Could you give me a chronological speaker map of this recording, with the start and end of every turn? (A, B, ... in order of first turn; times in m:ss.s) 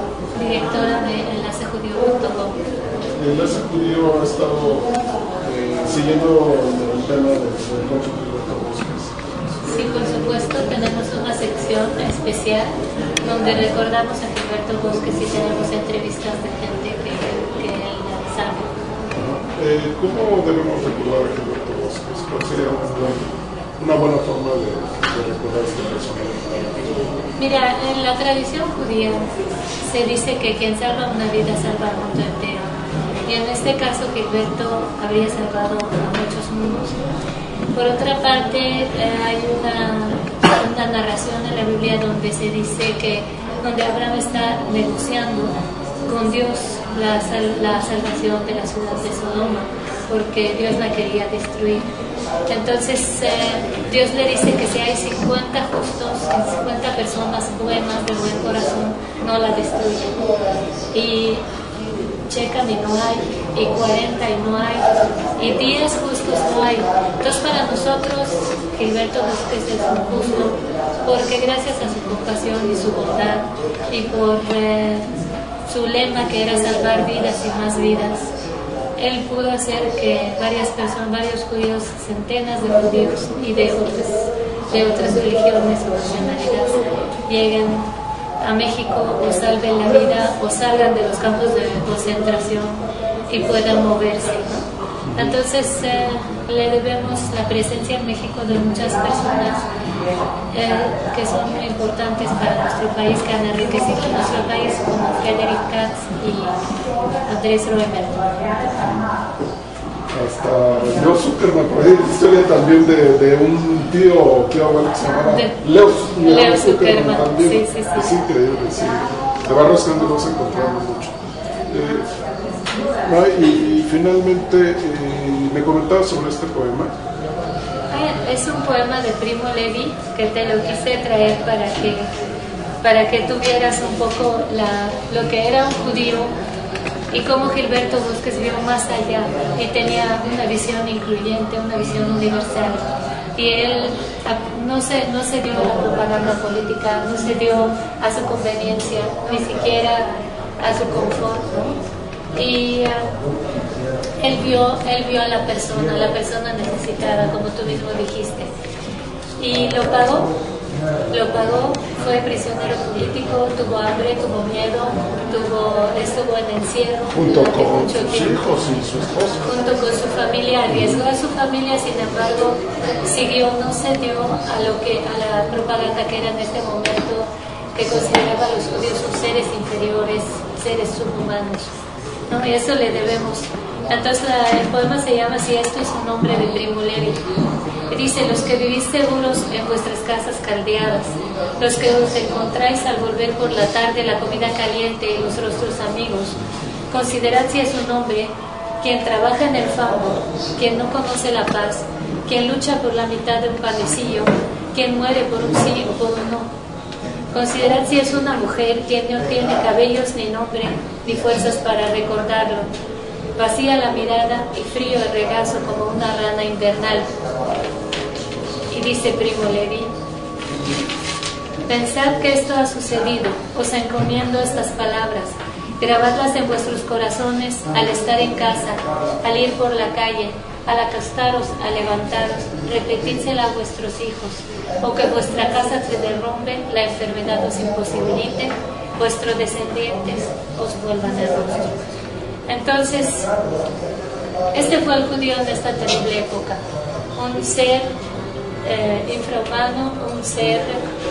0:00.3-0:02.6 A
0:03.1-0:09.2 B
0:09.6-0:18.7 A
0:19.1-0:26.7 B
0:27.4-0:32.7 A
0:33.2-0:37.0 A
0:37.7-0:51.9 A
0:52.5-1:00.2 A
1:00.9-1:01.4 A
1:02.2-1:15.1 A
1:15.7-1:18.3 A
1:19.0-1:39.7 A
1:35.1-1:35.3 B
1:40.5-1:46.6 A
1:47.2-1:48.2 A
1:48.8-1:49.2 B
1:50.1-2:02.1 B
1:55.2-1:55.6 A
1:56.2-1:58.1 A
2:03.0-2:06.9 B
2:07.9-2:12.1 A
2:12.8-2:16.4 A
2:17.1-2:31.8 A
2:32.3-2:33.2 A
2:34.2-2:38.5 A
2:39.4-2:40.3 A
2:41.1-2:48.4 A
2:47.1-2:49.4 B
2:49.4-3:01.7 A
3:02.3-3:07.2 A
3:07.9-3:16.4 A
3:16.9-3:26.5 A
3:27.3-3:32.7 A
3:33.4-3:37.1 A
3:38.7-3:39.9 A
3:41.6-4:01.8 A
4:02.5-4:03.3 A
4:04.5-4:06.6 A
4:07.2-4:07.9 A
4:08.6-4:10.8 A